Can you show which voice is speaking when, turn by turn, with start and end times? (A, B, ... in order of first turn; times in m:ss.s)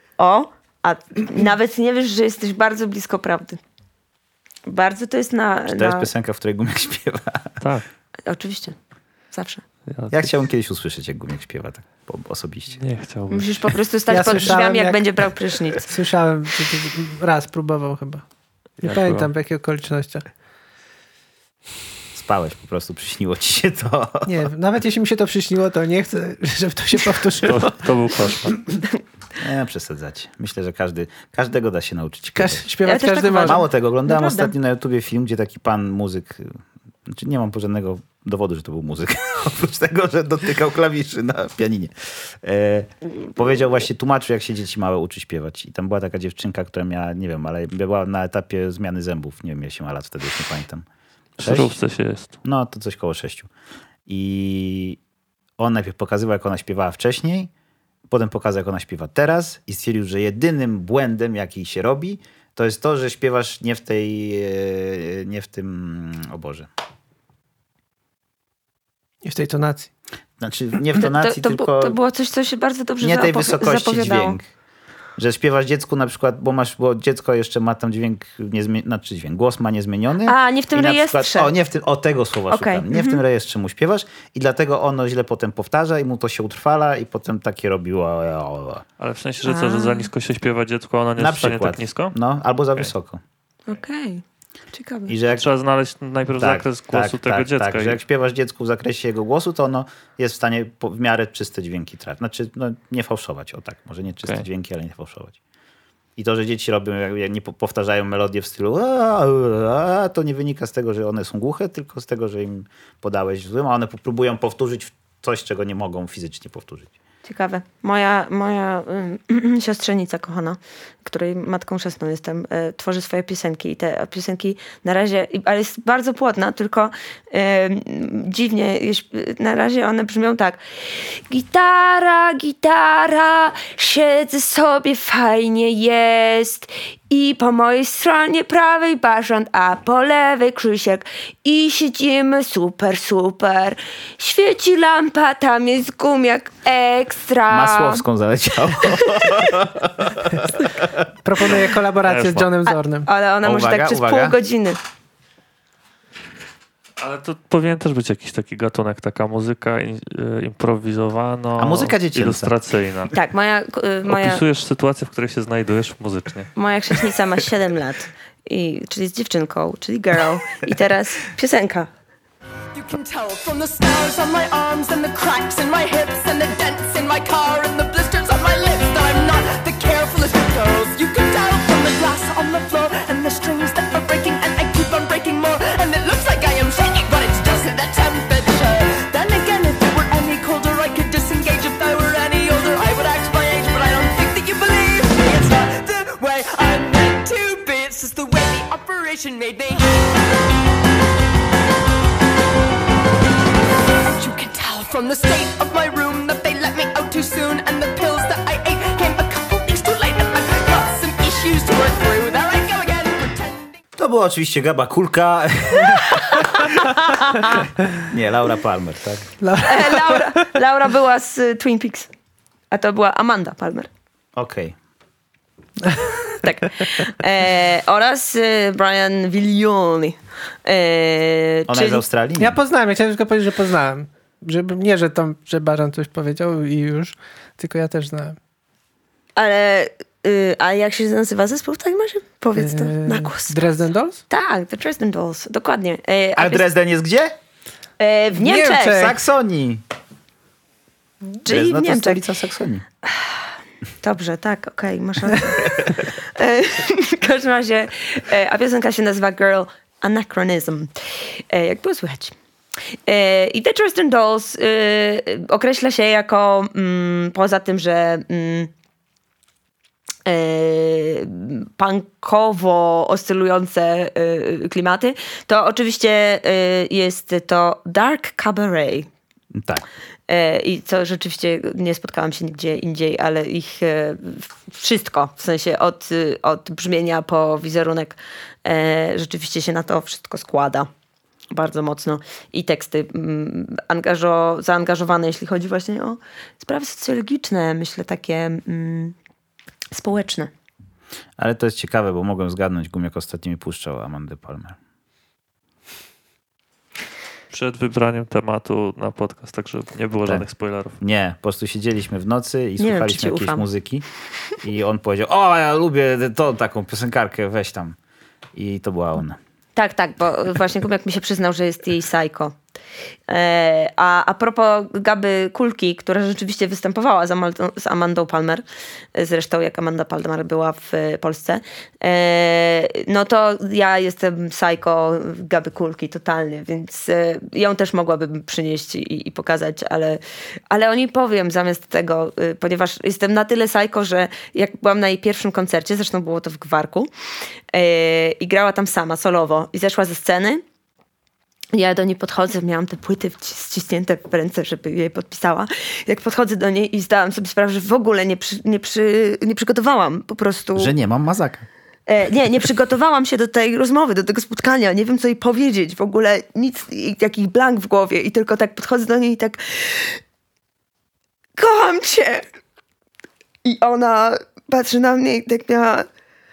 0:00.2-0:03.6 A
0:04.6-0:06.1 A
0:05.7-0:07.5 B
0:07.6-0:07.8 C
0:08.2-0:08.8 A
0:09.3-0:09.6 A
0:09.9-0:10.3 C
0:10.1-0:12.8 B
0:12.8-0:13.8 C
0:13.3-0:15.9 A
0:14.1-0:15.0 D
0:15.8-0:18.2 D
0:18.8-0:20.2 D
0:18.8-0:19.3 C
0:22.1-0:24.3 B
0:24.2-0:27.8 D
0:27.4-0:28.6 C
0:29.4-0:32.6 B
0:32.4-0:33.6 D
0:32.8-0:34.5 A
0:33.4-0:50.8 B
0:51.4-0:52.4 C
0:51.4-0:51.8 B
0:52.4-0:53.5 B
0:54.1-0:55.0 B
0:55.6-0:57.5 B
0:58.1-1:06.7 B
1:09.2-1:09.9 D
1:10.4-1:12.0 B
1:11.0-1:14.4 A
1:13.0-1:14.4 B
1:15.2-1:28.8 B
1:20.2-1:21.5 A
1:22.5-1:23.2 A
1:29.0-1:32.2 C
1:29.4-1:30.1 A
1:31.2-1:33.2 B
1:33.7-1:35.1 A
1:35.1-1:35.5 B
1:35.3-1:38.0 C
1:36.4-1:45.4 B
1:46.2-1:56.9 B
1:57.2-2:28.0 A
2:27.5-2:31.0 B
2:28.8-2:29.3 A
2:31.2-2:33.1 D
2:32.1-2:32.5 C
2:32.7-2:34.8 A
2:33.4-2:34.4 B
2:37.0-2:43.1 C
2:41.6-2:42.5 B
2:43.1-2:44.4 A
2:44.0-2:46.5 C
2:46.6-2:51.9 A
2:52.7-3:20.2 E
3:24.1-3:33.8 E
3:34.0-3:36.6 B
3:37.9-3:39.3 B
3:39.4-3:40.2 D
3:39.6-3:42.1 A
3:42.7-3:43.9 A
3:44.4-3:44.8 B
3:46.4-3:52.0 A
3:51.7-3:52.6 B
3:52.4-3:58.4 D
3:59.4-4:03.6 A
4:02.6-4:04.2 D
4:04.3-4:06.6 A
4:06.4-4:07.4 B
4:08.0-4:09.1 A
4:08.3-4:09.1 D
4:08.8-4:09.8 B
4:11.4-4:12.2 A
4:11.5-4:12.8 B
4:13.1-4:13.4 A
4:14.0-4:22.3 A
4:23.0-4:28.7 A
4:30.2-4:39.1 A
4:39.5-4:39.8 B
4:40.3-4:50.9 A
4:51.5-4:59.1 A
4:59.9-5:00.5 A
5:01.4-5:04.8 B
5:07.5-5:11.0 C
5:10.2-5:14.0 B
5:12.8-5:13.7 A
5:14.6-5:18.0 B
5:18.5-5:19.4 B
5:19.8-5:22.5 A
5:23.3-5:28.6 A
5:29.1-5:47.1 A
5:47.7-5:50.6 A
5:51.7-6:00.9 A
6:00.8-6:01.7 B
6:02.1-6:10.2 A
6:11.6-6:12.5 A
6:13.6-6:16.1 A